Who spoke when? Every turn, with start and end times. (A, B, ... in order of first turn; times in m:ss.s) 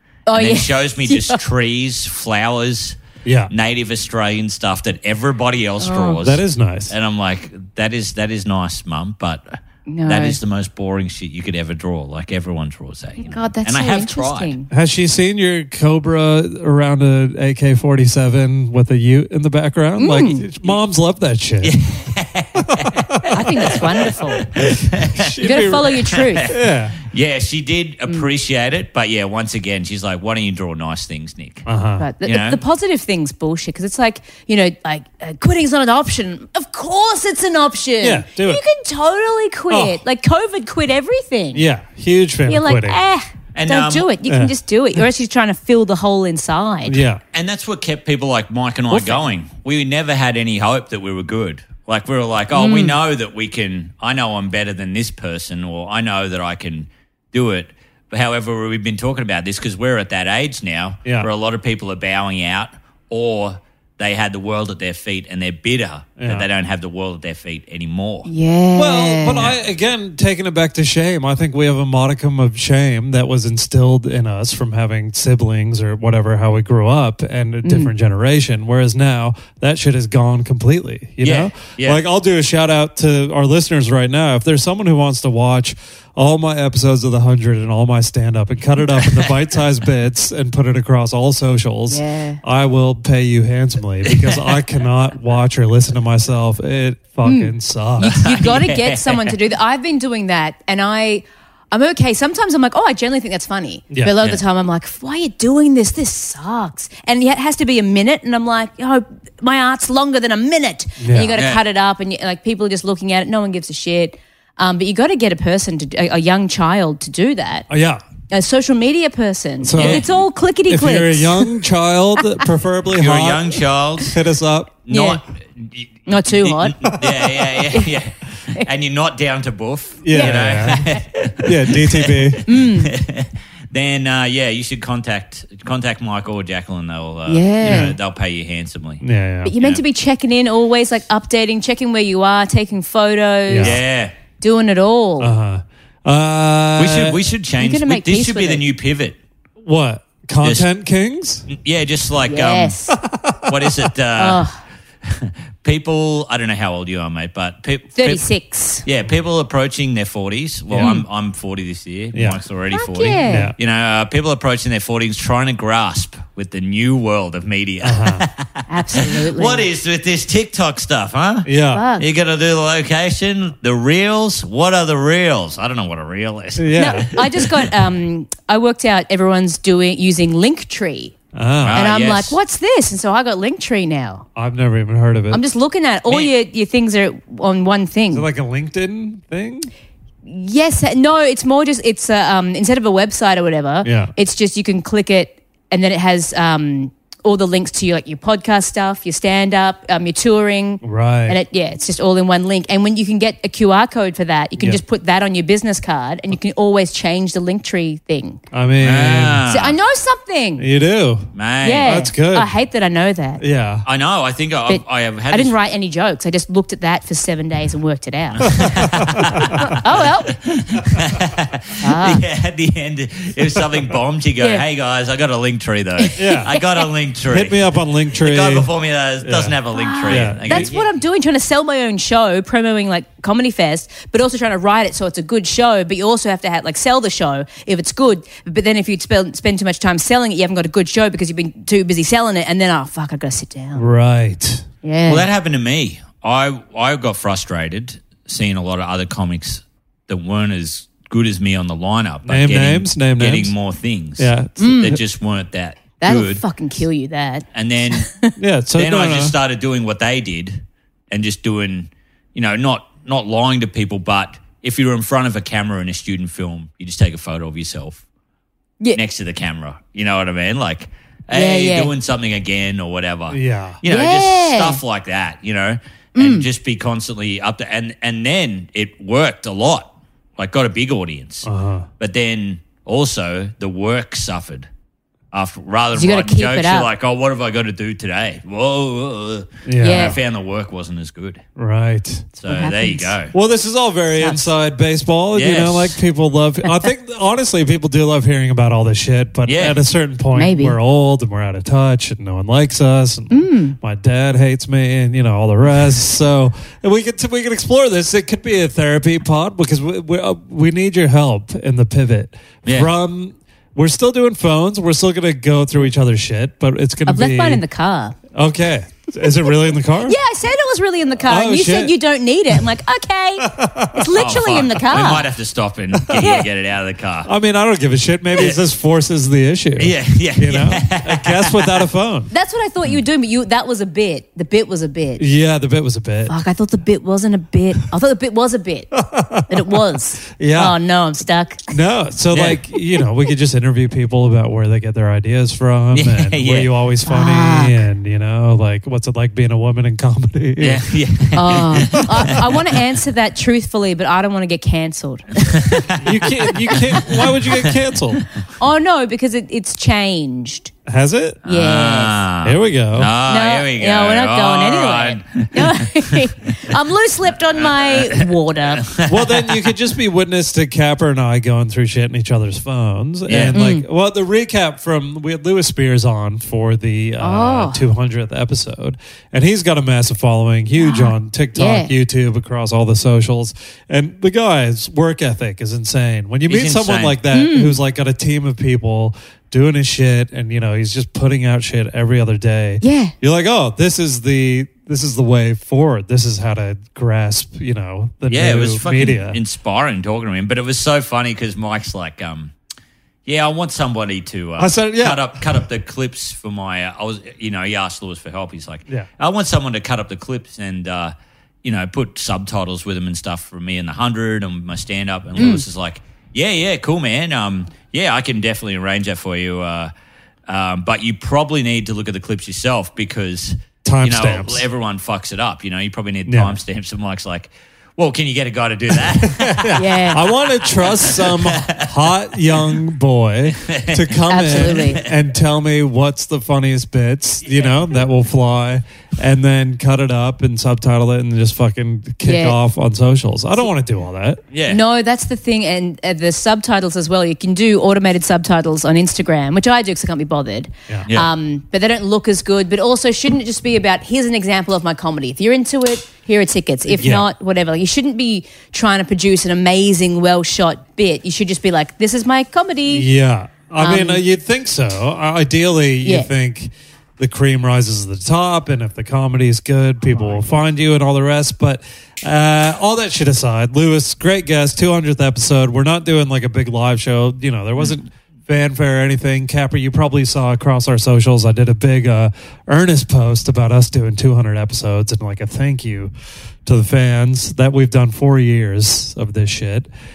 0:00.3-0:01.4 A
0:00.3-0:03.0 B
0:03.2-0:03.5 C
0:03.5-0:14.5 B
0:05.8-0:06.2 A
0:06.2-0:06.9 C
0:09.9-0:10.4 A
0:13.2-0:14.7 A
0:14.7-0:21.7 C
0:20.0-0:20.4 A
0:21.6-0:31.7 B
0:22.6-0:23.4 C
0:23.3-0:24.5 A
0:25.1-0:27.0 C
0:25.4-0:26.5 A
0:31.6-0:32.0 C
0:32.0-0:41.6 A
0:32.2-0:32.6 B
0:38.0-0:38.6 C
0:39.7-0:40.0 C
0:41.5-0:43.0 C
0:42.5-0:47.0 A
0:43.5-0:44.1 B
0:44.2-0:44.5 C
0:46.8-0:47.2 C
0:47.3-1:08.3 B
0:48.9-0:49.2 A
0:52.5-0:53.0 A
1:06.2-1:06.5 C
1:08.2-1:09.5 A
1:08.8-1:38.1 C
1:17.6-1:17.9 A
1:21.2-1:22.0 B
1:29.0-1:29.3 B
1:31.9-1:32.4 A
1:34.0-1:34.4 B
1:37.2-1:57.7 A
1:38.0-1:39.4 B
1:51.0-1:51.4 C
1:51.4-1:51.6 B
1:57.7-1:58.0 C
1:58.3-2:01.5 A
1:59.6-2:00.0 C
1:59.8-2:00.0 B
2:00.7-2:04.8 C
2:02.9-2:04.2 B
2:04.8-2:19.0 B
2:04.9-2:05.2 A
2:06.1-2:07.0 A
2:06.9-2:07.3 C
2:07.7-2:07.9 A
2:10.0-2:12.4 C
2:10.1-2:11.0 A
2:12.4-2:12.9 A
2:17.3-2:17.9 A
2:17.6-2:18.0 C
2:19.0-2:19.5 C
2:19.4-2:23.8 A
2:23.5-2:23.8 C
2:23.6-2:24.1 B
2:24.4-2:25.3 A
2:25.2-2:27.2 C
2:26.8-2:29.2 B
2:27.6-2:28.6 A
2:29.6-2:31.5 C
2:31.5-2:32.8 B
2:32.3-2:32.9 A
2:32.9-2:33.9 C
2:33.5-2:34.4 B
2:34.2-2:34.6 A
2:35.0-2:38.2 B
2:37.9-2:38.8 A
2:38.8-2:57.7 B
2:40.7-2:41.0 C
2:42.1-2:42.4 C
2:42.7-2:43.5 A
2:43.2-2:43.5 C
2:47.8-2:48.2 C
2:48.7-2:49.6 A
2:51.4-2:51.8 C
2:51.7-2:52.0 A
2:56.6-2:57.1 C
2:56.7-3:01.1 A
3:01.3-3:01.8 C
3:01.6-3:02.4 B
3:01.7-3:04.2 A
3:04.4-3:05.4 C
3:05.3-3:08.2 A
3:08.1-3:09.7 C
3:10.2-3:28.4 A
3:13.8-3:14.1 C
3:20.8-3:21.4 C
3:28.5-3:29.4 C
3:28.8-3:29.8 B
3:29.5-3:30.6 A
3:30.6-3:31.3 C
3:31.3-3:32.0 B
3:31.6-3:33.4 A
3:31.8-3:32.5 C
3:33.4-3:33.8 C
3:33.8-3:35.5 B
3:34.7-3:40.3 A
3:38.4-3:50.9 B
3:38.5-3:39.6 C
3:41.8-3:42.2 A
3:44.4-3:44.6 A
3:46.0-3:46.9 A
3:46.2-3:46.5 C
3:47.3-3:48.7 C
3:49.2-3:49.6 C
3:49.7-4:03.8 A
3:50.1-3:50.7 C
4:03.7-4:04.6 C
4:04.8-4:05.2 A
4:05.1-4:16.4 B
4:12.2-4:13.5 C
4:14.2-4:15.0 C
4:14.6-4:15.0 A
4:16.0-4:18.3 A
4:17.5-4:18.1 B
4:18.4-4:19.3 C
4:18.8-4:28.0 B
4:28.9-4:41.5 B
4:31.3-4:31.9 A
4:33.3-4:33.8 C
4:33.8-4:34.8 A
4:36.1-4:36.5 A
4:41.4-4:41.9 C
4:42.0-4:44.7 B
4:45.3-4:51.4 B
4:45.9-4:46.9 A
4:49.6-4:50.2 C
4:49.8-4:50.2 A
4:51.6-4:52.3 C
4:52.4-4:53.3 B
4:52.4-4:53.2 A
4:53.3-5:17.6 C
4:54.2-4:54.5 A
4:55.3-4:56.0 B
4:59.4-4:59.8 B
5:00.3-5:00.8 A
5:03.3-5:03.8 A
5:12.6-5:12.9 B
5:17.0-5:18.2 A
5:18.3-5:20.2 C
5:20.0-5:25.3 A
5:21.2-5:21.9 C
5:23.4-5:24.2 C
5:24.1-5:27.3 B
5:25.9-5:26.3 C
5:26.2-5:26.5 A
5:27.2-5:32.3 C
5:28.4-5:28.6 B
5:29.8-5:31.8 B
5:32.3-5:35.2 A
5:35.2-5:36.4 C
5:36.3-5:38.9 A
5:38.9-5:39.8 C
5:39.5-5:41.6 A
5:40.4-5:40.8 C
5:41.7-5:50.8 C
5:42.3-5:42.6 B
5:45.9-5:46.7 B
5:47.0-5:47.8 A
5:50.6-5:52.4 B
5:51.3-5:56.9 A
5:51.8-5:52.4 C
5:55.5-5:55.9 B
5:56.0-5:58.2 C
5:57.0-5:57.8 B
5:58.6-6:00.7 A
6:00.8-6:01.4 C
6:01.4-6:02.2 A
6:01.4-6:06.2 B
6:02.4-6:03.1 C
6:03.3-6:08.9 A
6:07.5-6:08.3 B
6:08.8-6:09.6 B
6:09.0-6:39.4 C
6:13.3-6:13.6 B
6:13.5-6:13.8 A
6:17.2-6:17.8 A
6:20.8-6:21.9 A
6:26.5-6:27.2 B
6:27.3-6:27.8 A
6:32.8-6:33.1 A
6:38.3-6:42.5 B
6:43.2-6:59.9 B
6:44.6-6:45.6 C
6:55.4-6:55.6 A
7:00.5-7:11.9 B
7:03.8-7:04.6 C
7:06.3-7:06.6 C
7:08.9-7:24.4 C
7:09.7-7:10.2 A
7:13.6-7:15.1 B
7:14.3-7:15.0 A
7:22.2-7:22.6 A
7:24.5-7:24.8 B
7:24.7-7:43.1 A
7:36.9-7:37.3 C
7:42.9-8:06.1 C
7:43.8-7:44.2 A
7:46.0-7:46.3 A
7:50.1-7:50.6 A
8:06.6-8:09.9 C